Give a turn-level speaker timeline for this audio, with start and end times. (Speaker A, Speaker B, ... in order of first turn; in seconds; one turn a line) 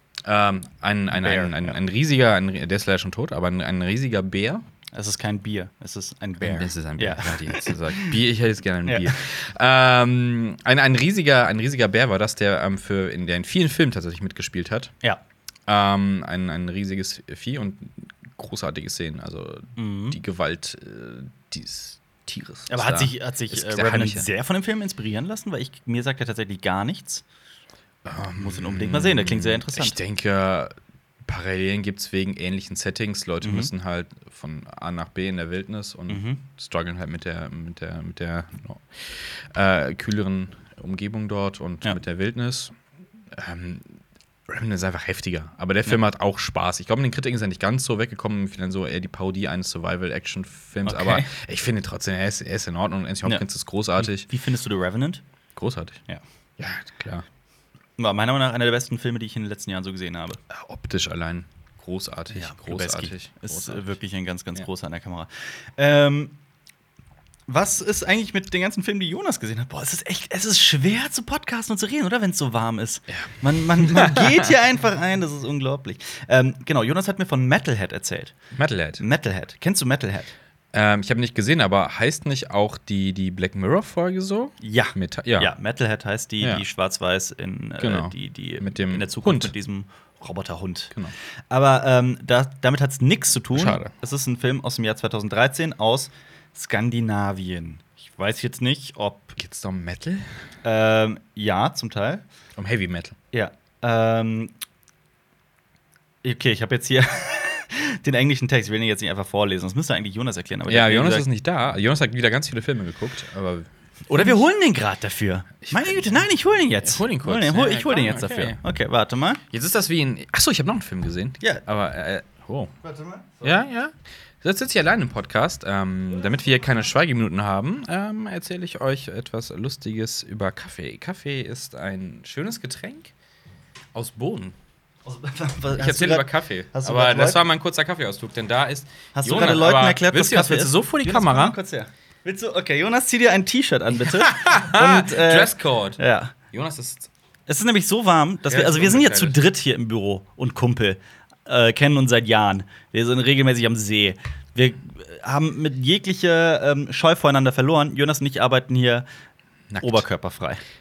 Speaker A: 0.2-4.7
Speaker B: 1.2-1.8
Speaker B: 4.9-8.2
Speaker A: 6.4-14.9
Speaker B: 8.8-9.2
Speaker A: 15.7-24.3
Speaker B: 19.8-20.2
Speaker B: 22.7-27.2
Speaker A: 28.0-30.7
Speaker B: 28.4-30.0
Speaker A: 31.2-42.7
Speaker B: 33.4-33.7
Speaker B: 36.1-36.4
Speaker A: 43.3-54.3
Speaker B: 50.9-51.3
Speaker B: 54.0-55.2
Speaker A: 55.5-56.0
Speaker A: 56.6-57.2
Speaker B: 58.0-60.4
Speaker A: 60.5-63.8
Speaker B: 62.3-66.3
Speaker B: 67.5-78.3
Speaker A: 73.8-74.5
Speaker A: 78.5-79.0
Speaker B: 79.0-80.3
Speaker A: 80.7-85.5
Speaker B: 84.6-90.9
Speaker A: 87.8-89.5
Speaker B: 91.5-99.4
Speaker A: 93.5-93.9
Speaker A: 99.4-100.2
Speaker B: 100.6-102.2
Speaker A: 102.6-103.2
Speaker B: 103.3-104.5
Speaker B: 106.2-111.2
Speaker A: 110.7-113.7
Speaker B: 114.1-119.4
Speaker A: 115.6-116.2
Speaker A: 116.8-118.6
Speaker A: 119.5-122.7
Speaker B: 122.8-123.6
Speaker A: 123.4-133.1
Speaker A: 133.9-134.5
Speaker B: 135.0-137.4
Speaker A: 135.7-141.6
Speaker B: 139.1-146.3
Speaker A: 144.0-146.0
Speaker A: 146.5-147.1
Speaker B: 147.5-159.0
Speaker A: 148.5-149.4
Speaker A: 159.7-160.0
Speaker B: 159.8-160.6